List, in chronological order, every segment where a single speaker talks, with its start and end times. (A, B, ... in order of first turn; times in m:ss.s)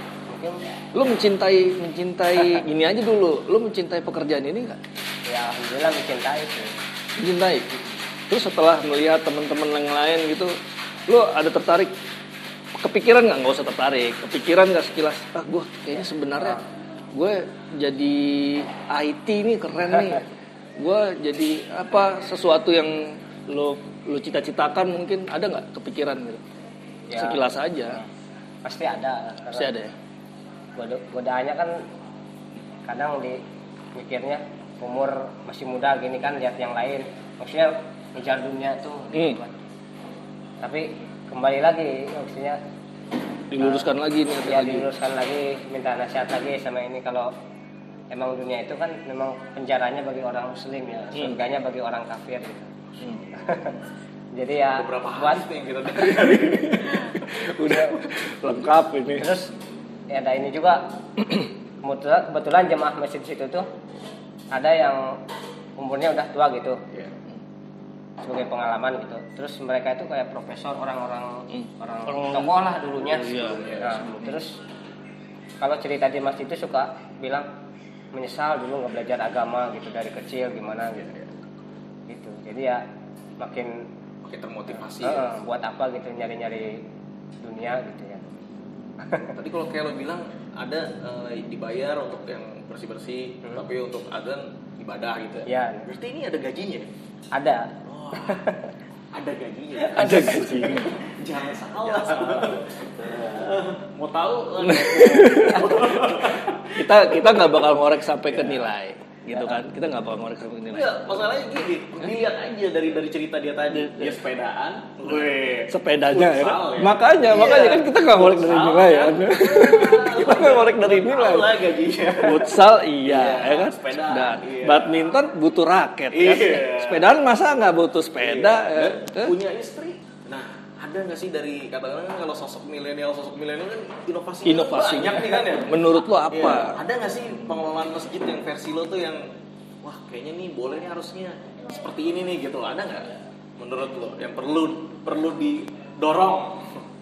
0:00.3-0:00.6 A
0:00.9-0:04.8 B
0:05.3-0:06.8 A
0:07.2-0:07.7 B
0:08.3-0:11.9 B
0:12.8-0:20.3 B
0:20.8-0:26.4 B
0:27.1-0:28.0 A
0:27.1-0:28.0 B
0:28.6-0:29.7 A
0:29.5-0:29.9 B
0:30.8-0:31.8 A
0:32.8-0:33.4 A
0:33.9-0:39.5 A
0:40.6-0:42.6 A
0:43.5-0:44.9 B
0:43.6-0:43.9 A
0:44.4-0:47.3 A
0:48.1-0:52.7 A
0:53.0-0:53.3 C
0:53.3-0:53.8 A
0:54.3-0:55.4 A
0:54.7-0:57.3 C
0:56.3-0:59.3 B
0:59.2-0:59.5 A
1:00.1-1:00.9 A
1:01.8-1:03.7 A
1:04.5-1:05.2 A
1:05.8-1:06.8 A
1:08.2-1:14.6 A
1:11.5-1:14.4 B
1:13.3-1:14.0 C
1:15.6-1:17.5 A
1:18.1-1:21.0 A
1:21.0-1:21.3 C
1:22.1-1:22.8 A
1:23.4-1:23.9 A
1:24.2-1:25.3 C
1:25.0-1:26.8 A
1:27.4-1:28.3 A
1:29.0-1:29.3 A
1:29.3-1:36.9 C
1:35.4-1:35.9 A
1:37.3-1:38.7 A
1:37.8-1:38.5 C
1:39.1-1:47.2 C
1:39.9-1:41.0 B
1:44.6-1:51.0 B
1:48.3-1:48.7 C
1:50.7-2:05.1 C
1:53.7-1:54.2 B
1:55.7-2:01.6 B
2:02.1-2:09.3 B
2:06.1-2:07.1 C
2:08.2-2:19.3 C
2:14.4-2:16.8 B
2:19.8-2:26.8 C